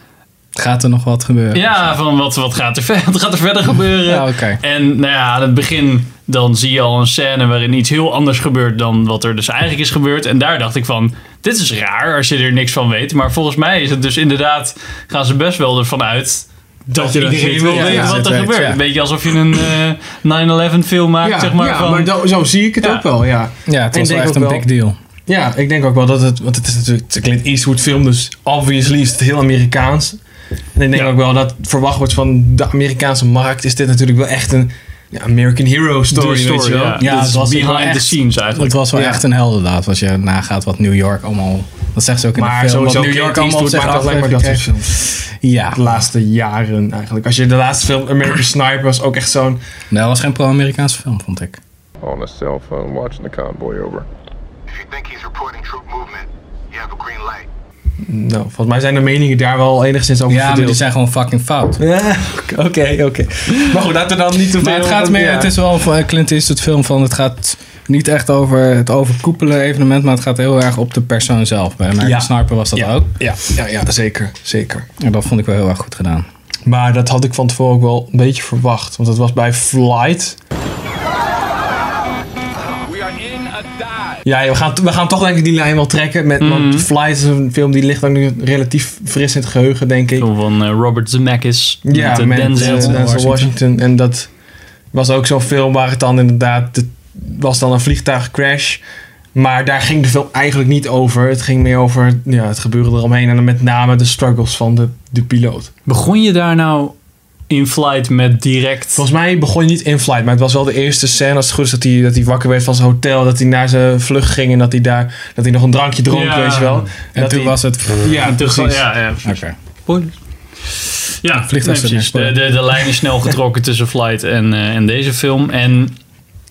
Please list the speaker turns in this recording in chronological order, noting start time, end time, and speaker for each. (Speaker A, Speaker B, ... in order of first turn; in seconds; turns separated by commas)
Speaker A: 0.6-2.0, Speaker B: 1.5-22.1, Speaker A: 4.1-4.6, Speaker C: 16.9-18.2, Speaker A: 17.7-18.8, Speaker C: 21.2-24.7, Speaker A: 23.7-25.0, Speaker C: 25.3-30.2, Speaker C: 30.8-37.0, Speaker B: 36.1-38.8, Speaker A: 37.0-45.8, Speaker C: 38.9-39.2, Speaker C: 42.4-45.1, Speaker C: 45.7-49.6, Speaker A: 49.9-51.6, Speaker D: 52.0-54.1, Speaker E: 54.7-57.5, Speaker C: 58.0-60.8, Speaker A: 60.3-61.8, Speaker C: 61.8-65.5, Speaker A: 64.6-73.2, Speaker C: 72.0-74.9, Speaker A: 75.0-76.3, Speaker C: 76.7-80.4, Speaker D: 83.0-83.6, Speaker C: 84.2-90.3, Speaker B: 86.4-86.9, Speaker B: 90.2-93.0, Speaker C: 91.8-94.3, Speaker A: 92.5-93.5, Speaker C: 94.9-98.8, Speaker C: 99.3-105.7, Speaker B: 105.9-107.0, Speaker B: 107.5-109.0, Speaker C: 109.0-118.9, Speaker B: 116.1-116.9, Speaker A: 117.2-118.2, Speaker B: 118.2-120.1, Speaker A: 119.2-119.5, Speaker B: 120.7-126.0, Speaker A: 121.3-122.4